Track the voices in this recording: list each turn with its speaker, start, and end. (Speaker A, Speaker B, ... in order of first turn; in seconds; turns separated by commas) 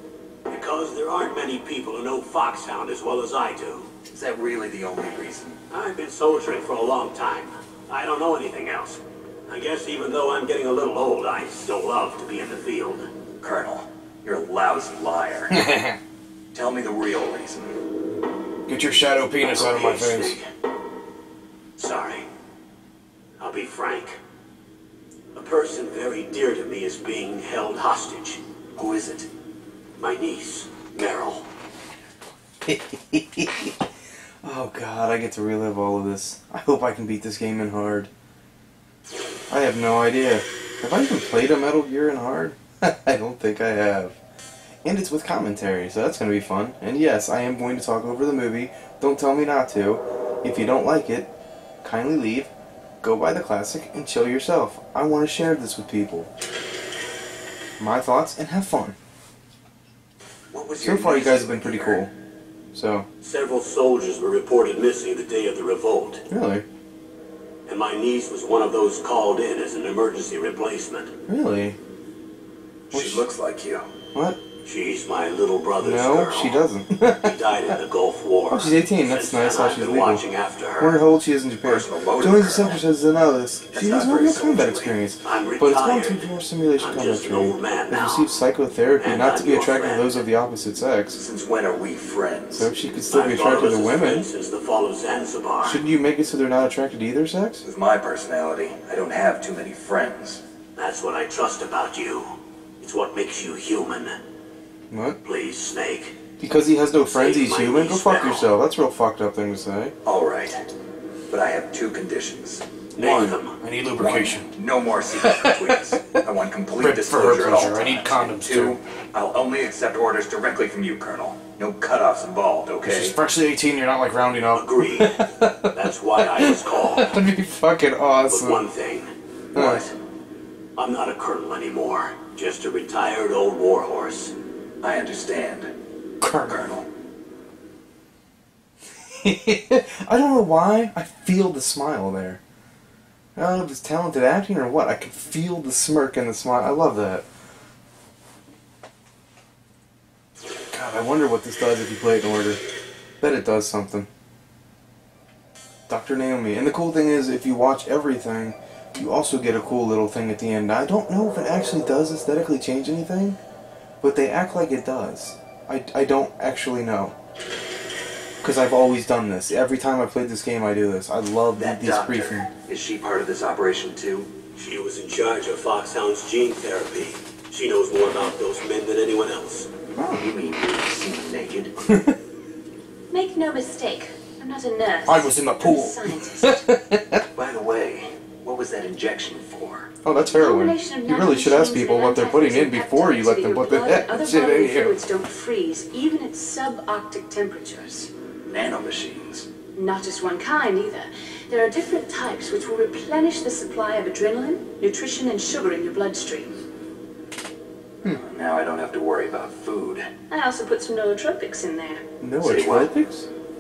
Speaker A: 0.5-3.9, Speaker B: 4.1-5.6, Speaker A: 5.7-13.1, Speaker B: 13.4-15.6, Speaker C: 15.5-16.0, Speaker B: 16.5-17.8, Speaker C: 18.7-20.4, Speaker A: 19.4-20.4, Speaker A: 21.8-22.2, Speaker A: 23.4-24.2, Speaker A: 25.3-28.4, Speaker B: 28.7-29.3, Speaker A: 30.0-31.4, Speaker C: 32.6-33.8, Speaker C: 34.4-38.1, Speaker C: 39.5-44.2, Speaker C: 44.8-51.3, Speaker C: 51.8-52.5, Speaker C: 53.0-56.3, Speaker C: 57.8-59.0, Speaker B: 60.5-62.0, Speaker C: 60.8-62.1, Speaker C: 62.7-63.0, Speaker A: 63.2-66.2, Speaker C: 66.3-66.6, Speaker A: 67.7-71.1, Speaker C: 71.3-71.8, Speaker B: 72.9-73.9, Speaker C: 72.9-73.3, Speaker C: 74.1-74.4, Speaker A: 74.6-81.0, Speaker C: 75.8-77.3, Speaker C: 78.5-80.2, Speaker C: 80.8-91.2, Speaker B: 81.6-82.8, Speaker B: 83.7-85.0, Speaker A: 85.2-88.3, Speaker A: 89.0-90.2, Speaker B: 91.1-92.7, Speaker C: 92.5-94.3, Speaker A: 93.1-95.8, Speaker C: 95.6-97.6, Speaker B: 97.6-100.4, Speaker A: 100.8-102.3, Speaker A: 102.8-104.2, Speaker C: 104.9-105.2, Speaker A: 105.2-106.2, Speaker C: 106.4-109.9, Speaker A: 107.0-108.5, Speaker B: 110.0-110.7, Speaker B: 111.3-112.6, Speaker A: 112.9-113.6, Speaker C: 113.0-114.5, Speaker B: 113.9-123.2, Speaker C: 115.1-116.2, Speaker C: 116.8-118.8, Speaker C: 122.8-128.7, Speaker A: 124.5-127.2, Speaker A: 128.3-129.1, Speaker B: 129.5-129.9, Speaker C: 129.5-129.9, Speaker A: 130.8-134.3, Speaker B: 134.8-135.7, Speaker C: 136.2-136.6, Speaker B: 136.4-136.9, Speaker C: 139.1-142.4, Speaker C: 143.3-147.2, Speaker C: 150.7-152.6, Speaker C: 153.2-154.1, Speaker C: 155.9-163.4, Speaker C: 164.0-167.1, Speaker C: 168.4-172.5, Speaker B: 171.5-174.3, Speaker A: 174.6-179.7, Speaker C: 179.9-180.3, Speaker B: 180.0-181.8, Speaker C: 181.9-182.1, Speaker D: 183.1-186.6, Speaker C: 185.1-187.2, Speaker B: 187.3-189.9, Speaker C: 190.0-195.0, Speaker D: 190.3-198.1, Speaker B: 198.4-199.4, Speaker D: 199.7-206.6, Speaker B: 208.0-210.1, Speaker D: 210.3-212.0, Speaker C: 212.2-213.3, Speaker B: 212.4-212.9